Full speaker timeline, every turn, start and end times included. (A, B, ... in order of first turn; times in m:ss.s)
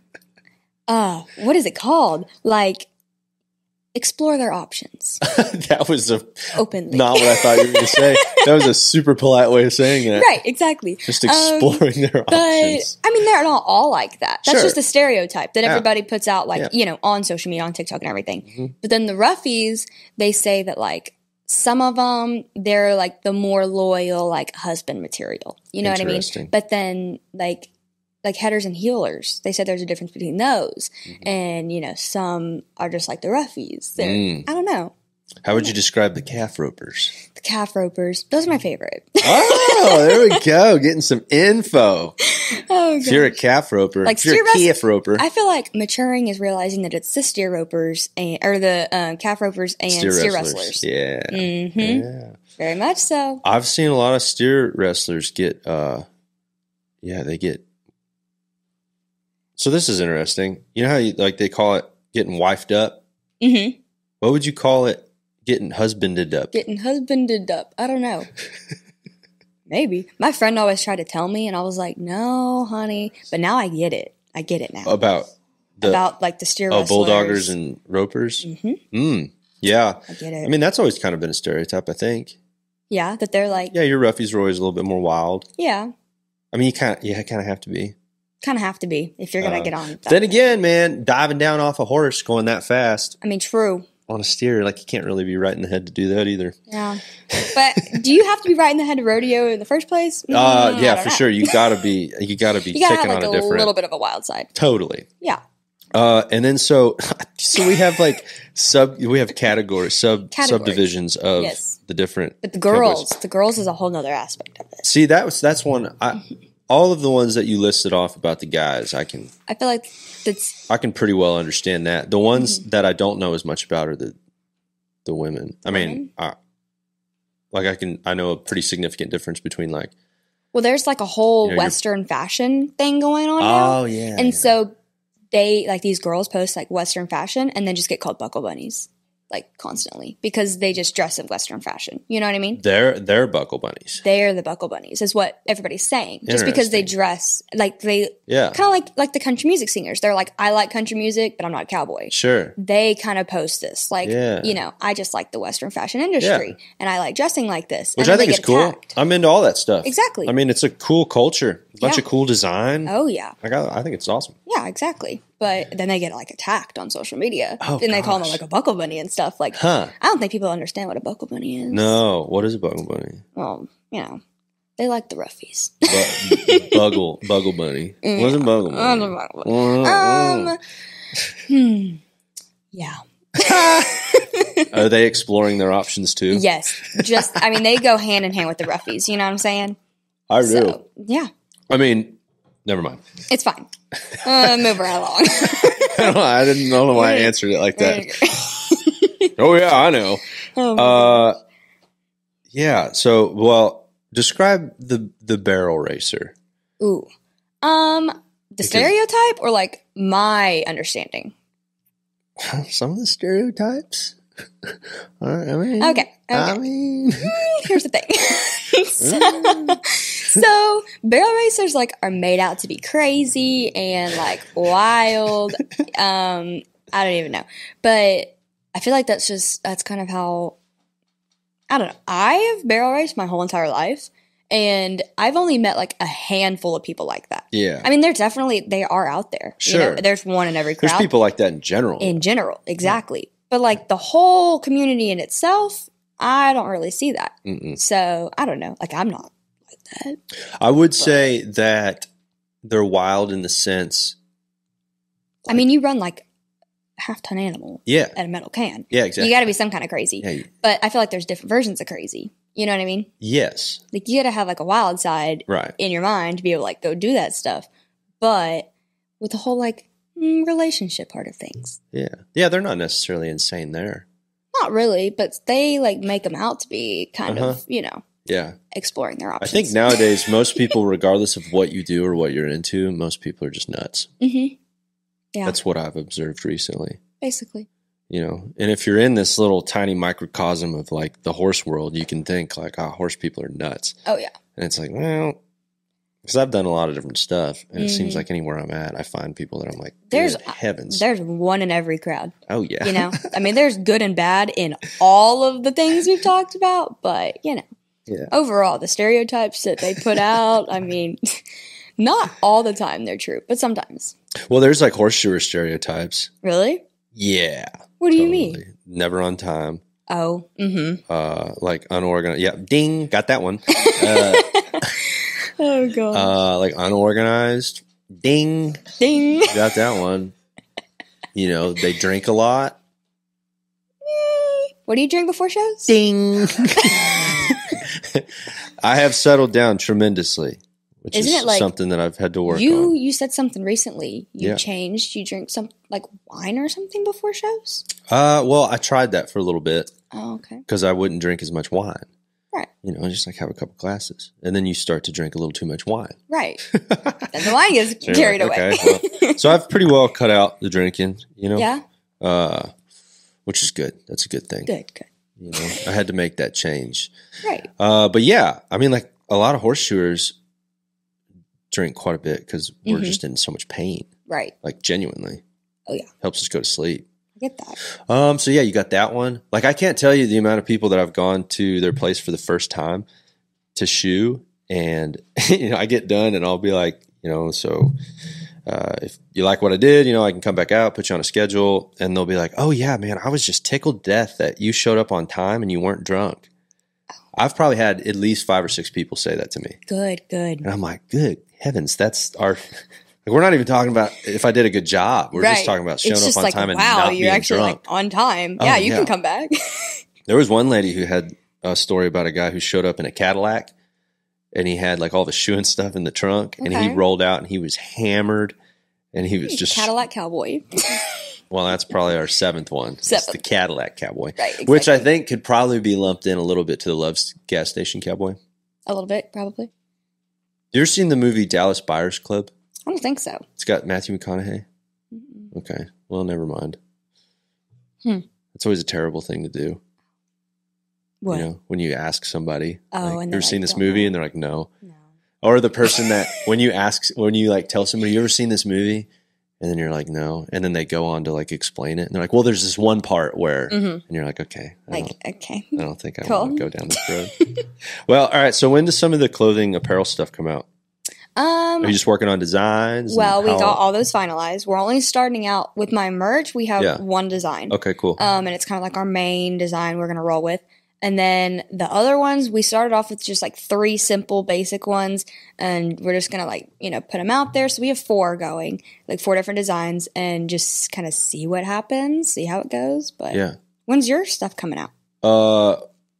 0:00.9-0:02.9 A
0:03.9-0:05.2 A
0:05.2-0:10.3 B
0:06.6-0:08.7 A
0:10.1-0:27.7 A
0:11.1-0:12.9 B
0:14.4-0:14.8 B
0:25.8-0:26.5 B
0:28.2-0:34.9 A
0:31.1-0:31.3 B
0:34.0-0:34.4 B
0:35.4-0:37.1 B
0:37.3-0:40.4 A
0:39.2-0:42.2 B
0:42.2-0:43.4 A
0:43.0-0:45.2 B
0:44.0-0:52.0 A
0:49.9-0:52.4 B
0:52.6-0:53.4 A
0:53.4-0:56.0 B
0:57.0-0:57.6 B
0:59.6-1:03.0 B
1:03.4-1:03.8 A
1:04.2-1:06.5 B
1:06.5-1:08.3 A
1:09.7-1:15.0 A
1:14.8-1:16.0 B
1:15.8-1:17.5 A
1:16.7-1:22.3 B
1:18.4-1:18.8 A
1:20.1-1:20.5 A
1:22.9-1:23.7 A
1:23.7-1:25.5 B
1:25.6-1:25.9 A
1:26.5-1:27.9 B
1:28.4-1:30.3 A
1:29.4-1:33.1 B
1:33.2-1:33.9 A
1:34.1-1:36.6 B
1:36.7-1:41.7 A
1:37.3-1:38.0 B
1:40.3-1:43.7 B
1:42.7-1:44.5 A
1:44.5-1:45.1 B
1:45.9-1:53.1 B
1:50.3-1:51.8 A
1:52.4-1:54.8 A
1:54.8-1:59.3 B
1:59.5-2:00.6 A
2:00.7-2:04.2 B
2:05.0-2:06.4 B
2:05.6-2:06.1 A
2:07.5-2:09.9 B
2:10.5-2:14.7 A
2:11.4-2:11.8 B
2:13.4-2:14.5 B
2:15.3-2:22.6 A
2:22.6-2:24.0 B
2:24.0-2:38.9 A
2:26.2-2:26.9 B
2:28.3-2:28.6 B
2:32.1-2:32.5 B
2:34.0-2:34.5 B
2:36.2-2:36.5 B
2:38.0-2:44.4 B
2:39.8-2:40.3 A
2:42.8-2:43.3 A
2:44.5-2:52.0 A
2:47.6-2:48.4 B
2:49.5-2:49.9 B
2:51.7-2:53.2 B
2:53.4-2:54.2 A
2:54.8-2:56.8 A
2:55.8-3:00.5 B
2:58.0-3:00.6 A
3:01.5-3:02.0 A
3:02.7-3:04.7 A
3:03.4-3:03.9 B
3:04.7-3:07.4 B
3:06.3-3:09.8 A
3:10.3-3:10.8 B
3:10.4-3:11.3 A
3:11.7-3:13.0 B
3:13.3-3:13.7 A
3:14.2-3:16.2 A
3:15.4-3:18.1 B
3:16.9-3:19.3 A
3:19.4-3:20.2 B
3:20.6-3:21.2 A
3:20.8-3:21.4 B
3:22.5-3:26.3 B
3:26.8-3:27.1 A
3:27.6-3:31.3 A
3:28.6-3:28.9 B
3:32.4-3:37.7 B
3:35.8-3:36.6 A
3:37.2-3:50.6 A
3:39.0-3:39.8 B
3:51.7-4:01.1 A
3:57.5-3:57.9 B
3:59.6-4:00.0 B
4:00.8-4:02.2 B
4:02.0-4:10.2 A
4:07.4-4:07.8 B
4:10.6-4:12.1 B
4:12.6-4:14.2 B
4:15.5-4:16.2 A
4:17.0-4:23.1 A
4:17.9-4:18.2 B
4:18.9-4:19.3 B
4:20.2-4:20.5 B
4:23.2-4:23.8 B
4:23.9-4:27.7 A
4:25.5-4:25.7 B
4:28.2-4:28.7 A
4:29.2-4:31.8 A
4:31.9-4:34.0 B
4:34.5-4:38.0 A
4:37.3-4:37.6 B
4:38.2-4:38.6 B
4:38.7-4:40.0 A
4:39.4-4:44.1 B
4:44.2-4:44.5 A
4:45.4-4:47.0 B
4:47.2-4:47.7 A
4:48.1-4:54.0 B
4:54.0-4:54.3 A
4:54.6-4:55.4 B
4:56.2-5:01.0 B
4:57.8-4:58.2 A
5:00.1-5:07.6 A
5:02.5-5:03.3 B
5:08.3-5:11.4 A
5:09.9-5:10.2 B
5:12.0-5:14.1 A
5:14.5-5:16.3 B
5:16.4-5:16.8 A
5:17.1-5:19.8 B
5:18.0-5:18.6 A
5:20.1-5:21.0 A
5:21.1-5:24.9 B
5:23.7-5:26.3 A
5:26.1-5:28.8 B
5:29.0-5:29.6 A
5:29.4-5:30.3 B
5:31.3-5:32.8 B
5:34.0-5:35.9 A
5:35.9-5:42.9 B
5:36.7-5:37.8 A
5:41.1-5:41.7 A
5:42.5-5:47.8 A
5:48.1-5:49.9 B
5:50.1-5:50.6 A
5:50.7-5:52.1 B
5:52.8-5:56.2 B
5:56.3-5:56.6 A
5:56.7-5:57.3 B
5:57.3-5:59.4 A
5:58.0-6:01.7 B
6:01.6-6:01.8 A
6:02.2-6:02.7 B
6:03.4-6:04.7 B
6:04.7-6:05.1 A
6:05.4-6:07.1 B
6:07.4-6:07.7 A
6:07.8-6:10.4 B
6:11.7-6:14.1 B
6:12.8-6:13.2 A
6:14.3-6:14.5 A
6:14.6-6:15.4 B
6:16.2-6:17.1 B
6:17.4-6:17.8 A
6:18.1-6:23.0 B
6:23.7-6:27.9 B
6:28.6-6:36.5 B
6:37.3-6:39.8 B
6:39.9-6:40.7 A
6:40.6-6:47.8 B
6:45.4-6:50.0 A
6:48.6-6:49.1 B
6:50.3-6:53.7 B
6:54.5-6:58.6 B
6:56.6-6:57.0 A
6:59.1-6:59.9 B
6:59.5-7:01.2 A
7:01.5-7:08.4 B
7:03.0-7:03.4 A
7:04.4-7:05.0 A
7:08.9-7:09.7 A
7:10.7-7:12.5 B
7:12.9-7:13.4 A
7:13.6-7:14.6 B
7:15.1-7:15.5 A
7:15.5-7:16.8 B
7:18.5-7:19.8 B
7:21.2-7:21.5 A
7:21.3-7:24.7 B
7:22.9-7:24.2 A
7:25.4-7:29.1 B
7:29.6-7:35.1 B
7:33.7-7:34.0 A
7:34.9-7:37.6 A
7:35.8-7:37.3 B
7:37.9-7:40.6 B
7:41.4-7:42.0 A
7:41.8-7:43.8 B
7:43.1-8:04.9 A
7:47.7-7:48.2 B
8:03.3-8:03.6 B
8:05.2-8:05.8 B